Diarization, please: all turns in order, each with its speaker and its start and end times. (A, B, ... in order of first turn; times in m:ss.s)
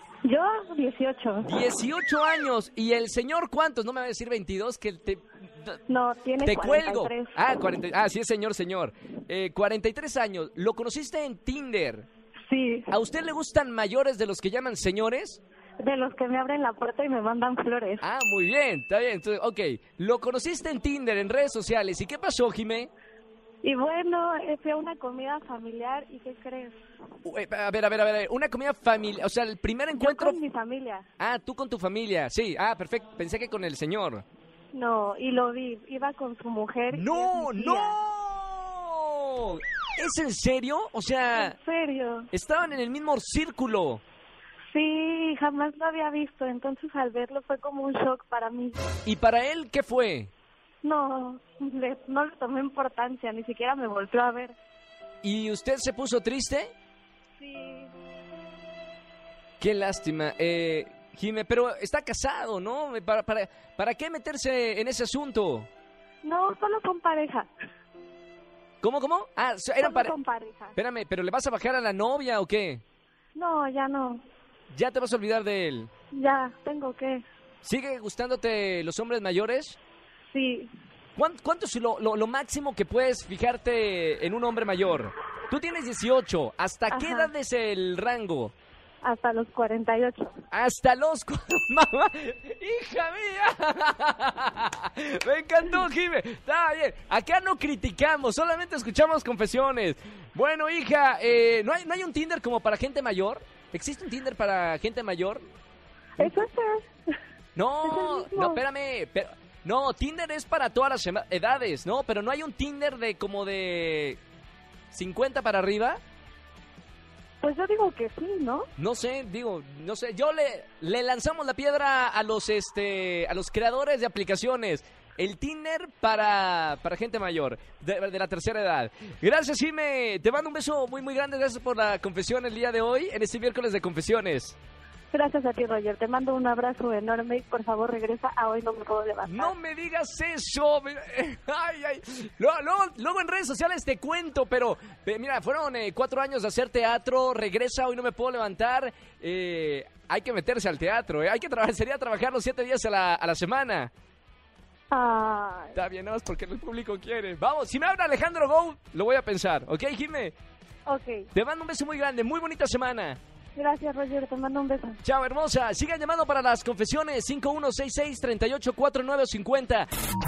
0:00.2-0:01.5 A
0:01.4-0:05.8 B
0:05.9-0:07.4 A
0:06.4-0:12.1 B
0:12.5-0:12.9 A
0:12.9-0:15.4 B
0:15.8-0:18.0 A
0:18.0-0:22.9 B
0:23.6-0:26.8 A
0:27.2-0:30.4 B
0:29.9-0:31.0 A
0:31.2-0:34.2 B
0:34.7-0:38.0 A
0:36.9-0:41.6 B
0:41.3-0:42.3 A
0:42.3-0:44.0 B
0:44.7-0:48.8 A
0:49.1-0:50.3 B
0:50.8-0:54.6 A
0:55.2-0:56.7 B
0:57.4-0:57.9 A
0:59.6-1:05.7 B
1:06.2-1:07.5 A
1:08.8-1:10.2 B
1:09.8-1:10.8 A
1:10.8-1:12.8 B
1:13.4-1:14.2 A
1:14.7-1:15.9 B
1:16.1-1:17.2 A
1:17.6-1:19.8 B
1:20.3-1:20.7 A
1:21.2-1:28.5 B
1:26.9-1:27.3 A
1:29.0-1:30.3 A
1:30.5-1:45.4 B
1:46.2-1:46.9 A
1:47.6-1:54.2 B
1:47.8-1:48.6 A
1:54.9-1:56.0 B
1:57.4-1:58.7 A
1:58.8-2:14.6 B
2:15.1-2:19.5 A
2:19.2-2:33.9 B
2:34.9-2:35.8 A
2:35.8-2:40.3 B
2:40.9-2:41.3 A
2:41.3-2:43.2 B
2:43.6-2:45.0 A
2:45.0-2:49.9 B